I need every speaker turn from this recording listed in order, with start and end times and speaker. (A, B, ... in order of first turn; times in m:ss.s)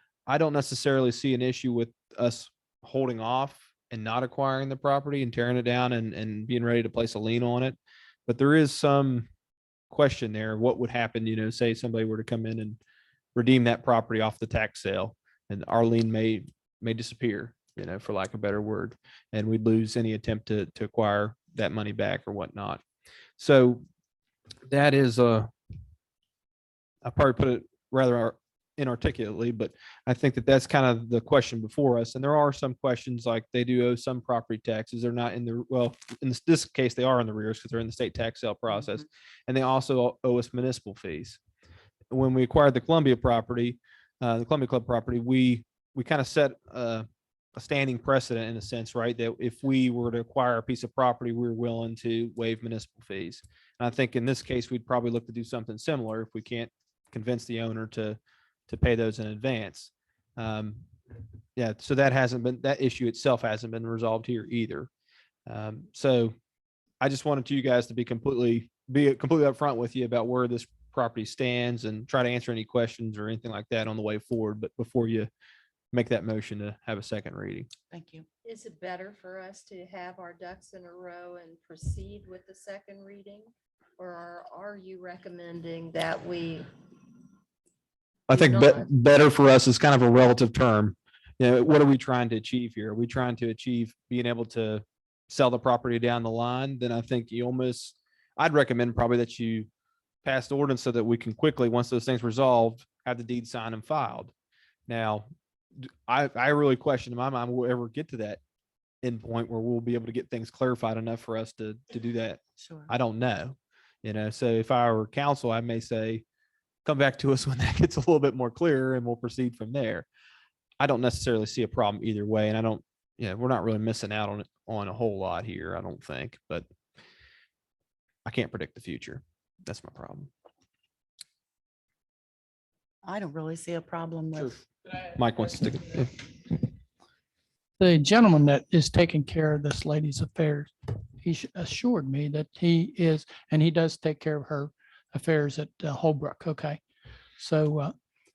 0:00.3-0:09.3 A
0:09.9-0:12.8 A
0:13.3-0:22.8 A
0:23.4-0:23.8 A
0:24.7-0:25.5 A
0:27.0-0:41.4 A
0:42.1-1:00.8 A
1:01.6-1:04.9 A
1:05.5-1:06.3 A
1:07.0-1:15.3 A
1:15.9-1:17.7 A
1:17.9-1:18.2 B
1:18.4-1:26.6 C
1:28.3-1:28.9 C
1:28.3-1:39.7 A
1:40.2-1:44.3 A
1:44.9-1:45.3 A
1:46.1-1:48.4 A
1:49.0-1:56.2 A
1:52.6-1:52.9 B
1:56.8-2:00.1 A
2:00.8-2:06.6 A
2:08.2-2:10.3 A
2:13.0-2:14.6 B
2:15.1-2:16.1 A
2:17.8-2:26.8 D
2:27.4-2:27.9 D